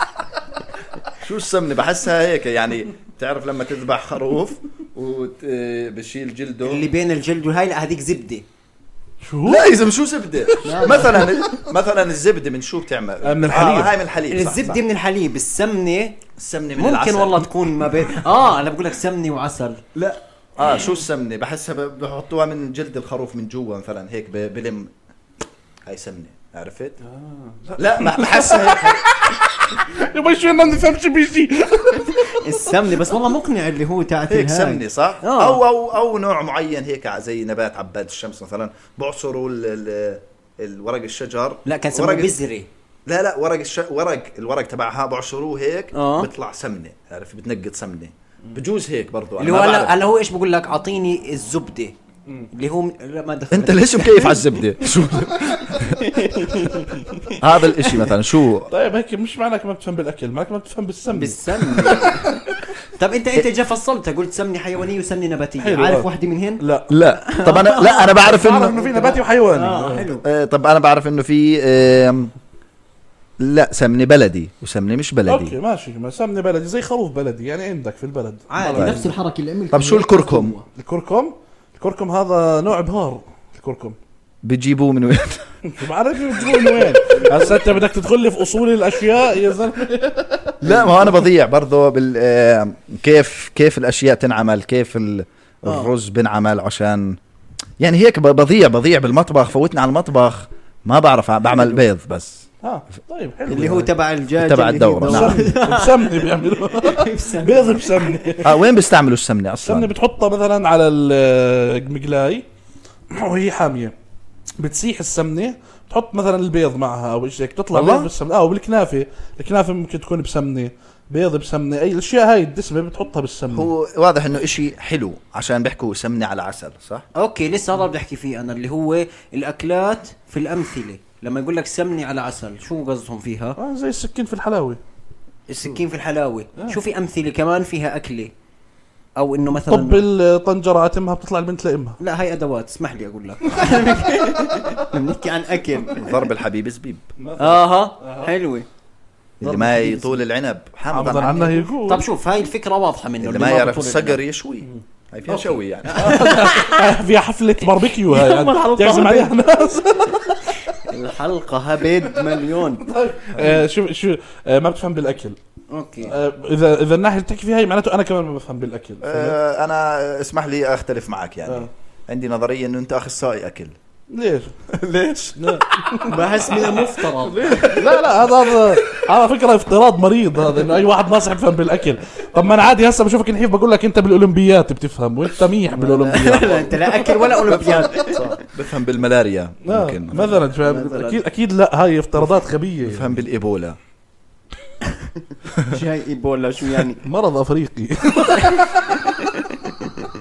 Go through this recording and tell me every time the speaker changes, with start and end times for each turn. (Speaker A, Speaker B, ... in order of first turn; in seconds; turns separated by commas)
Speaker A: 1.2-6.8, Speaker B: 6.6-8.4, Speaker C: 9.2-9.8, Speaker A: 9.4-14.8, Speaker C: 10.5-11.5, Speaker B: 10.6-11.3, Speaker C: 13.2-13.9, Speaker B: 14.3-16.2, Speaker A: 16.4-17.5, Speaker B: 16.8-19.8, Speaker A: 19.9-24.9, Speaker A: 25.9-27.0, Speaker C: 27.0-32.5, Speaker A: 27.8-29.0, Speaker B: 32.3-35.6, Speaker A: 34.3-42.4, Speaker B: 41.6-42.7, Speaker A: 43.1-50.0, Speaker B: 45.9-46.3, Speaker B: 49.4-51.9, Speaker B: 52.5-54.4, Speaker A: 53.5-56.3, Speaker B: 56.0-57.9, Speaker A: 57.4-58.7, Speaker C: 58.7-62.5, Speaker B: 61.1-62.4, Speaker B: 63.0-70.2, Speaker C: 65.6-66.1, Speaker C: 66.6-66.9, Speaker A: 66.9-68.8, Speaker C: 68.1-70.1, Speaker A: 70.2-72.3, Speaker A: 73.4-75.5, Speaker C: 75.3-79.1, Speaker B: 78.5-80.6, Speaker A: 78.7-79.0, Speaker A: 79.7-80.5, Speaker C: 80.7-84.0, Speaker A: 84.4-85.5, Speaker C: 85.7-90.9, Speaker A: 90.6-97.2, Speaker B: 95.6-95.9, Speaker A: 97.8-102.5, Speaker C: 102.6-103.9, Speaker B: 103.5-108.4, Speaker A: 104.4-105.5, Speaker C: 105.0-108.6, Speaker A: 108.4-109.9, Speaker C: 109.7-112.4, Speaker C: 113.1-113.9, Speaker C: 114.6-123.7, Speaker A: 117.7-118.1, Speaker A: 123.5-127.0, Speaker B: 127.2-133.6, Speaker C: 133.6-134.8, Speaker B: 135.5-138.3, Speaker B: 139.2-140.0, Speaker C: 139.6-142.0, Speaker B: 142.0-146.2, Speaker A: 145.9-147.1, Speaker C: 147.2-148.3, Speaker B: 147.4-148.7, Speaker A: 149.4-151.7, Speaker B: 149.4-150.2, Speaker C: 150.9-152.1, Speaker B: 151.8-154.2, Speaker A: 153.2-156.3, Speaker B: 155.3-156.9, Speaker C: 155.9-160.6, Speaker B: 158.1-159.3, Speaker B: 160.8-162.8, Speaker C: 162.2-165.4, Speaker A: 163.3-163.6, Speaker B: 165.7-166.1, Speaker C: 166.1-169.3, Speaker A: 169.0-173.7, Speaker C: 174.1-174.5, Speaker A: 174.7-175.6, Speaker C: 175.4-187.3, Speaker B: 176.0-177.8, Speaker B: 185.7-188.3, Speaker A: 187.5-190.4, Speaker C: 189.6-193.2, Speaker B: 190.6-191.2, Speaker A: 192.8-193.8, Speaker A: 195.5-195.8, Speaker B: 195.6-197.0, Speaker C: 197.0-199.0, Speaker B: 198.3-198.6